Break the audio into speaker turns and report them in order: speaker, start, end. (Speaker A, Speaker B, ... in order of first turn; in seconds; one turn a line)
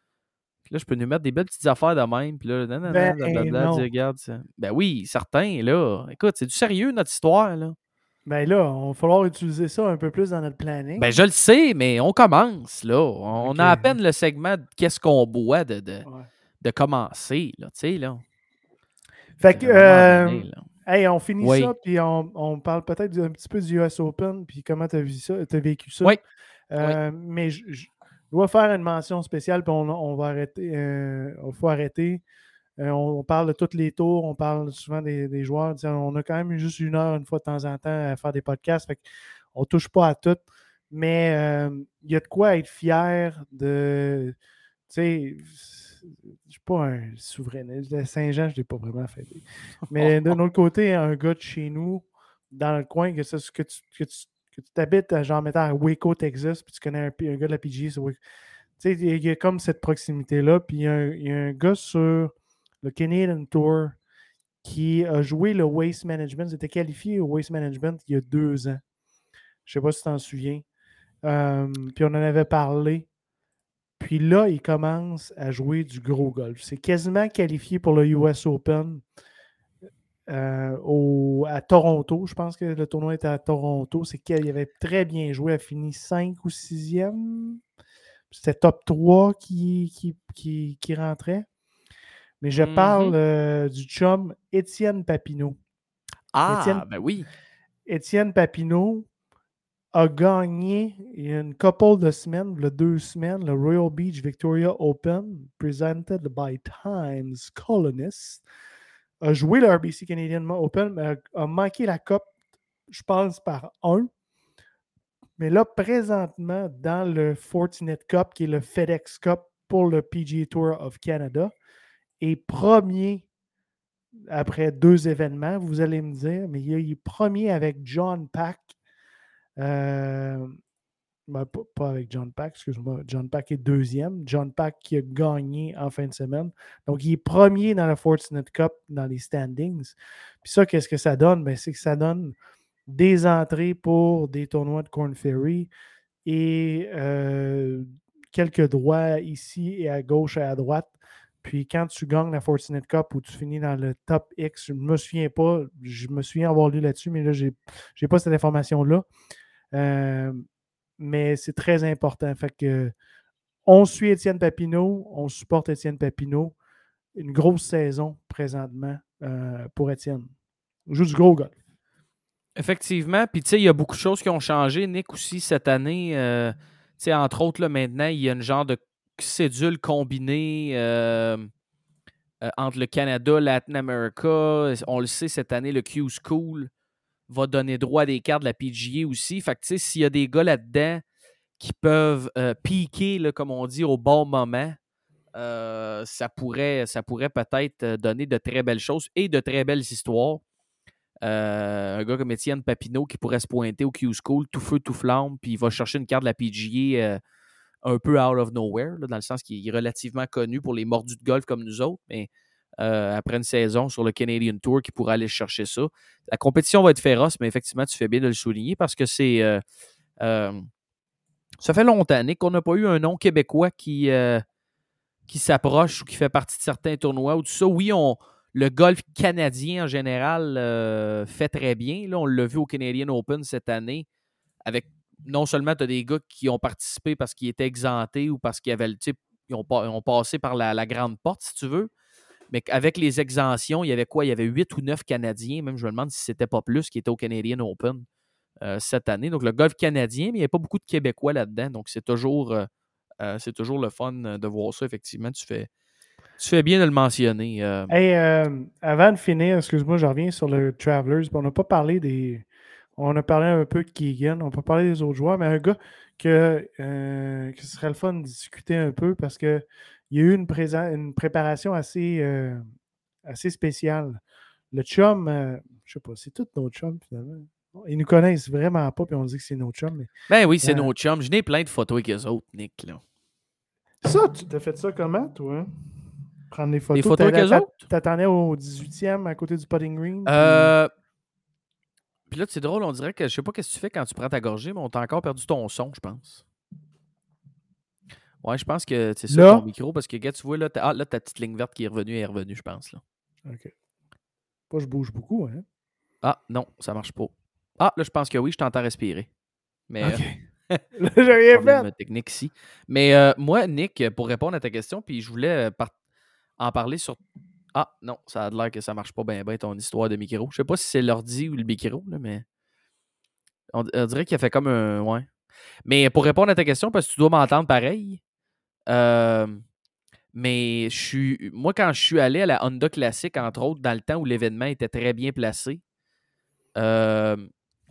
Speaker A: 0.7-7.8
Speaker B: 2.9-3.9
Speaker B: 8.3-11.1
Speaker A: 11.0-16.1
Speaker B: 13.4-13.9
Speaker A: 16.6-18.2
Speaker B: 19.4-26.2
Speaker A: 19.5-20.6
Speaker A: 21.4-21.7
Speaker B: 26.7-32.2
Speaker B: 32.8-39.0
Speaker B: 39.5-44.3
Speaker B: 44.9-58.2
Speaker A: 49.9-50.4
Speaker B: 58.8-64.0
Speaker B: 64.6-68.8
Speaker B: 69.7-70.6
Speaker B: 71.2-73.1
Speaker B: 74.0-79.0
Speaker B: 80.3-87.6
Speaker B: 88.3-91.5
Speaker B: 92.4-95.6
Speaker A: 92.5-93.2
Speaker A: 96.3-97.3
Speaker B: 96.5-96.8
Speaker B: 97.9-99.1
Speaker B: 99.9-108.4
Speaker B: 109.2-112.3
Speaker B: 112.9-114.1
Speaker B: 115.4-121.5
Speaker B: 122.2-123.2
Speaker B: 124.3-128.7
Speaker B: 129.6-130.6
Speaker B: 131.3-142.3
Speaker B: 142.9-145.7
Speaker B: 146.2-159.1
Speaker B: 159.7-160.4
Speaker B: 161.0-162.9
Speaker B: 163.7-166.5
Speaker B: 167.2-170.3
Speaker B: 170.9-171.6
Speaker A: 172.6-181.5
Speaker A: 182.4-186.7
Speaker A: 187.3-191.0
Speaker A: 191.6-194.8
Speaker A: 195.3-200.4
Speaker A: 201.2-207.2
Speaker A: 207.8-219.6
Speaker A: 220.2-220.6
Speaker A: 221.6-224.4
Speaker A: 225.3-234.1
Speaker A: 234.6-241.9
Speaker A: 242.5-248.0
Speaker A: 248.6-252.7
Speaker A: 253.2-255.7
Speaker A: 256.4-257.9
Speaker B: 257.9-262.4
Speaker B: 263.0-272.6
Speaker B: 273.2-274.2
Speaker B: 274.7-280.1
Speaker A: 280.3-283.0
Speaker B: 280.6-280.9
Speaker B: 284.0-285.7
Speaker B: 286.5-290.7
Speaker A: 286.9-287.7
Speaker A: 290.2-290.9
Speaker A: 292.3-296.4
Speaker A: 298.4-303.0
Speaker B: 299.3-299.6
Speaker B: 303.5-303.7
Speaker B: 304.7-305.6
Speaker A: 306.2-309.3
Speaker A: 309.9-310.8
Speaker B: 310.0-310.4
Speaker B: 310.9-311.9
Speaker A: 311.5-315.9
Speaker A: 316.6-317.2
Speaker A: 317.7-322.4
Speaker A: 323.7-325.3
Speaker A: 325.8-328.2
Speaker A: 328.9-329.6
Speaker A: 330.3-335.8
Speaker A: 336.8-337.5